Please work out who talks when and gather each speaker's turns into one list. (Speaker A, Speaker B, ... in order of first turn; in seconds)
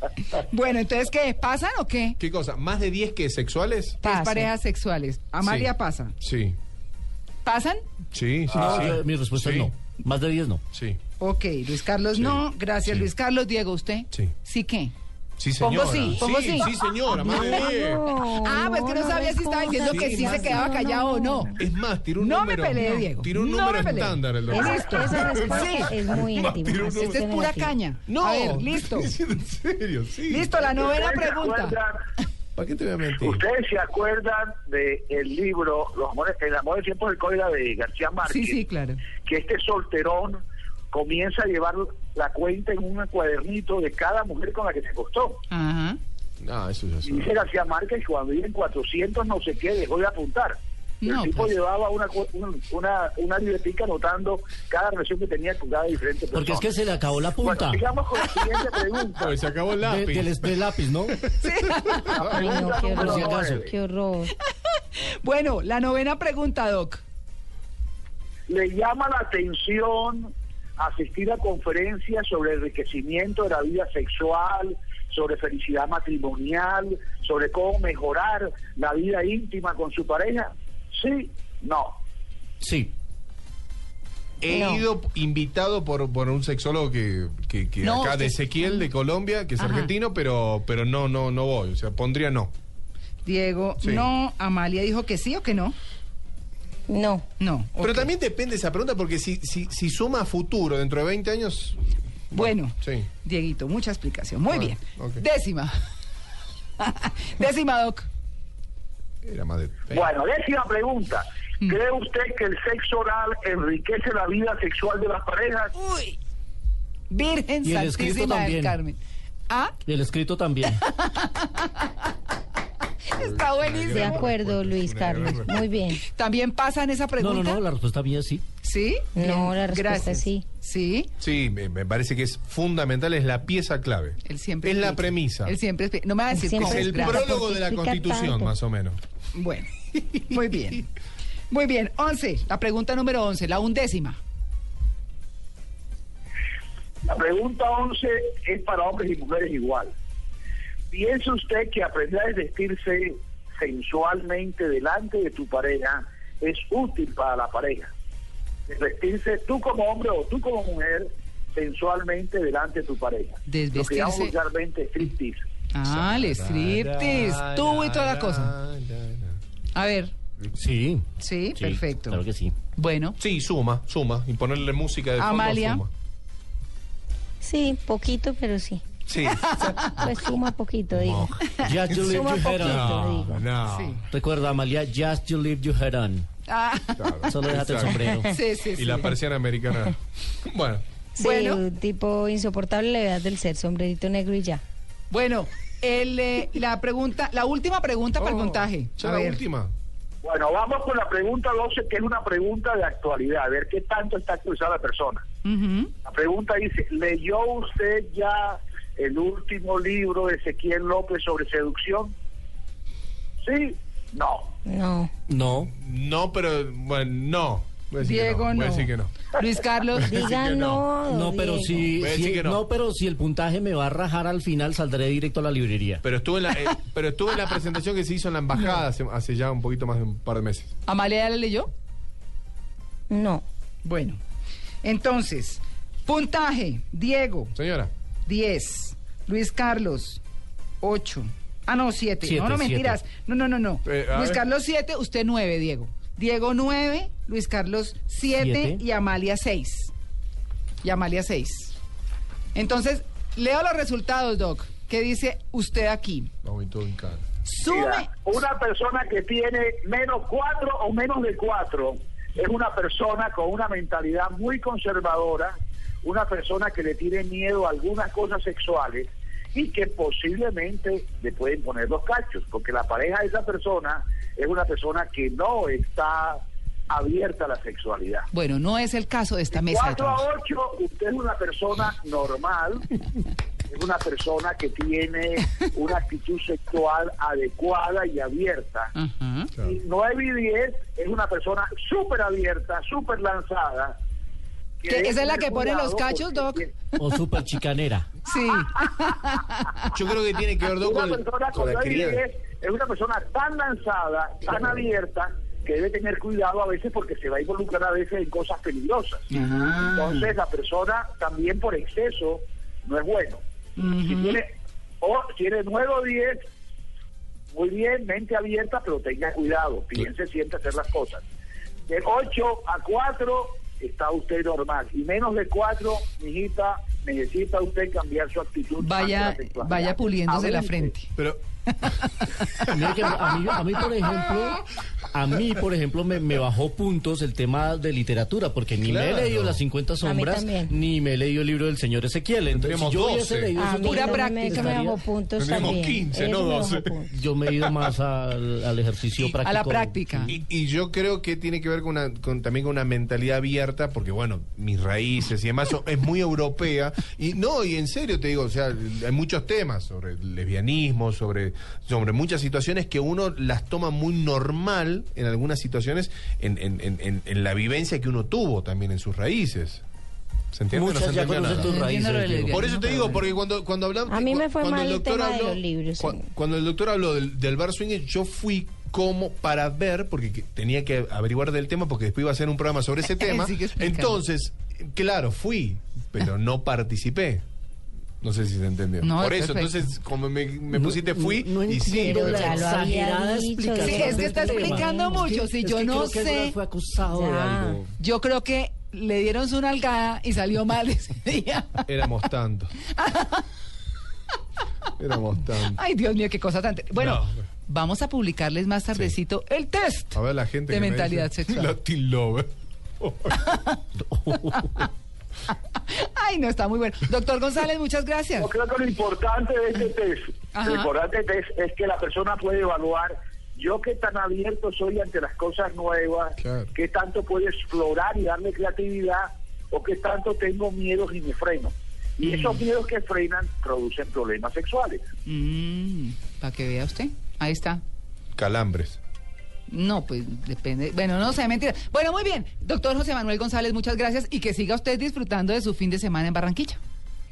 Speaker A: 0.4-2.2, 4.0-6.1, 7.4-7.8, 11.2-14.9, 15.6-21.6, 22.2-26.0, 26.9-29.1, 30.3-31.8, 38.2-39.1, 45.5-46.0, 51.0-51.5, 61.3-62.7, 64.7-67.0, 87.8-88.4, 89.6-89.9, 93.2-95.7, 97.4-98.1, 102.3-105.7, 106.8-108.1, 115.8-116.2, 117.1-119.0, 119.5-119.8, 120.7-122.0, 123.1-124.2, 126.0-127.6, 128.6-131.1, 134.2-137.3, 139.3-140.9, 141.5-144.2, 163.4-164.3, 165.7-168.5, 169.7-170.1, 171.2-172.2, 172.7-173.2, 175.2-175.8, 179.3-180.0, 183.6-184.0, 186.5-187.2, 188.3-189.1, 191.2-191.6, 195.1-199.4, 205.4-205.9, 218.0-220.1, 230.9-231.7, 233.8-234.2, 234.8-237.5, 238.2-240.2, 240.8-249.9, 250.8-251.8, 252.5-256.3, 257.4-258.1, 278.3-280.2, 288.9-289.5, 294.9-297.1, 298.2-299.9, 309.3-310.3, 313.8-314.4, 328.8-331.1, 331.9-332.8, 343.8-345.0, 349.1-350.3, 371.5-373.2, 383.1-384.2, 389.0-389.9, 393.8-396.6, 398.0-402.2, 402.9-403.4, 405.6-411.7, 413.3-414.8, 415.7-418.5, 420.5-420.9, 432.2-432.6, 435.2-437.8, 439.7-446.8
Speaker B: 2.2-4.0, 5.4-6.6, 8.1-9.7, 10.7-11.0, 12.1-13.1, 15.4-18.0, 19.9-20.7, 21.6-27.2, 28.1-30.5, 32.5-33.4, 46.4-47.3, 59.2-60.6, 61.1-62.4, 84.4-92.5, 93.8-94.1, 97.8-103.1, 104.5-105.2, 109.2-110.1, 123.1-125.8, 131.2-135.6, 136.6-139.0, 165.8-169.4, 173.2-175.9, 179.1-180.1, 180.9-184.0, 186.9-188.1, 188.7-190.8, 198.2-199.7, 215.7-219.1, 219.9-220.8, 221.9-222.6, 226.0-230.7, 237.6-237.9, 243.8-244.4, 256.4-257.2, 299.9-302.2, 338.8-339.6, 342.5-343.6, 345.4-347.0, 347.5-347.9, 350.3-369.8, 370.5-371.7, 372.5-387.4, 388.2-392.8, 401.9-402.7, 404.9-405.8, 406.9-407.4, 410.1-413.5, 426.4-426.7, 438.3-439.0
Speaker C: 4.1-4.5, 17.4-21.6, 24.5-27.7, 62.3-64.3, 84.5-84.8, 96.9-97.2, 124.0-126.0, 129.1-130.4, 136.4-138.5, 177.4-178.8, 179.9-181.2, 182.1-183.4, 191.1-194.6, 214.6-215.1, 220.0-221.9, 233.1-233.4, 340.0-340.7, 343.6-347.1, 374.1-376.1, 392.1-394.0, 397.1-397.8
Speaker D: 8.5-10.6, 56.3-57.8, 59.8-61.2, 63.0-63.7, 82.6-82.9, 117.6-118.8, 119.8-120.8, 127.2-128.4, 170.5-172.5, 181.2-183.0, 184.1-186.2, 187.3-188.3, 215.3-215.7, 221.0-226.0, 242.2-243.0, 248.3-248.8, 297.0-298.1, 332.6-346.0, 347.1-350.3, 370.7-372.8, 390.7-397.9, 414.2-414.5
Speaker E: 30.6-32.0, 33.2-38.6, 39.1-45.4, 47.0-56.7, 57.4-59.3, 62.3-63.7, 68.5-82.0, 109.9-115.7, 147.0-149.9, 150.9-157.9, 158.7-165.4, 200.2-205.2, 206.0-212.1, 213.4-214.5, 257.7-278.3, 279.5-282.9, 283.7-288.9, 289.6-293.9, 294.8-296.7, 300.8-309.2, 309.9-313.4, 314.0-316.4, 317.5-321.2, 321.9-330.9, 418.4-435.0